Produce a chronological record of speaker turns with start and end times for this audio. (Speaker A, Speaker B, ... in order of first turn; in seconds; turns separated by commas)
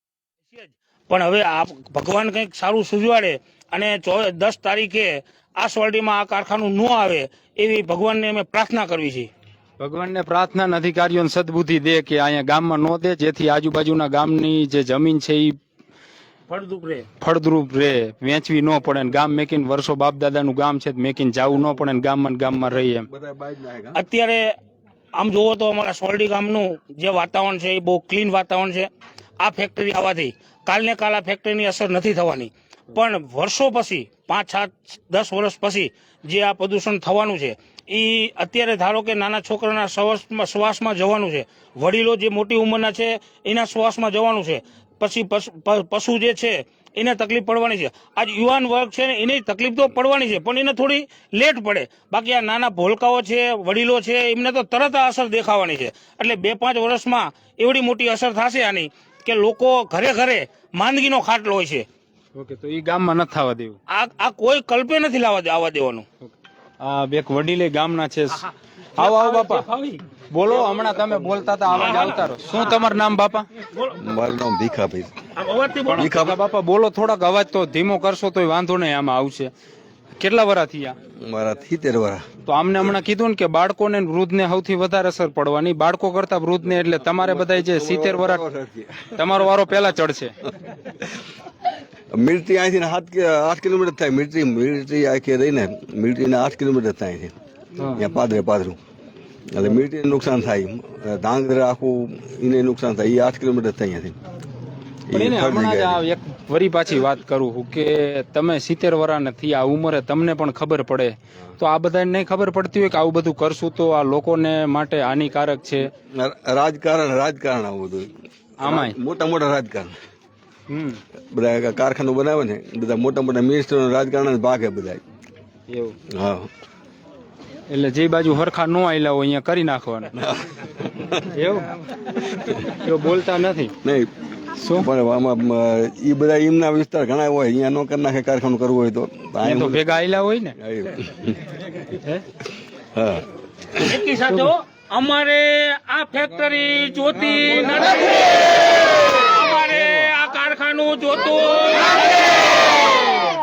Speaker A: 0.5-9.3, Speaker B: 9.8-15.6, Speaker A: 16.5-17.1, Speaker B: 17.2-23.1, Speaker C: 23.1-24.0, Speaker A: 23.9-24.5, Speaker A: 25.2-28.9, Speaker A: 29.4-61.9, Speaker B: 62.4-63.8, Speaker A: 63.9-66.0, Speaker B: 66.8-69.7, Speaker A: 69.0-70.0, Speaker B: 70.3-73.5, Speaker A: 71.7-72.3, Speaker A: 73.6-74.0, Speaker C: 74.0-75.1, Speaker A: 75.3-76.2, Speaker B: 75.9-79.5, Speaker C: 76.0-76.4, Speaker B: 80.2-81.0, Speaker C: 81.2-82.2, Speaker B: 82.5-88.4, Speaker C: 87.0-89.1, Speaker B: 89.1-90.3, Speaker C: 92.1-97.3, Speaker C: 97.9-98.8, Speaker C: 99.5-104.1, Speaker C: 105.1-106.0, Speaker B: 105.1-115.9, Speaker C: 116.1-120.0, Speaker B: 118.6-119.0, Speaker B: 120.7-121.0, Speaker C: 121.3-125.0, Speaker B: 125.7-126.0, Speaker C: 126.1-126.5, Speaker B: 127.7-130.1, Speaker C: 130.1-131.1, Speaker B: 131.3-131.7, Speaker B: 132.6-133.8, Speaker C: 133.8-134.1, Speaker B: 134.6-134.9, Speaker C: 134.7-139.8, Speaker B: 139.4-140.6, Speaker C: 140.6-141.6, Speaker C: 142.9-144.0, Speaker A: 143.8-153.1, Speaker B: 149.7-150.1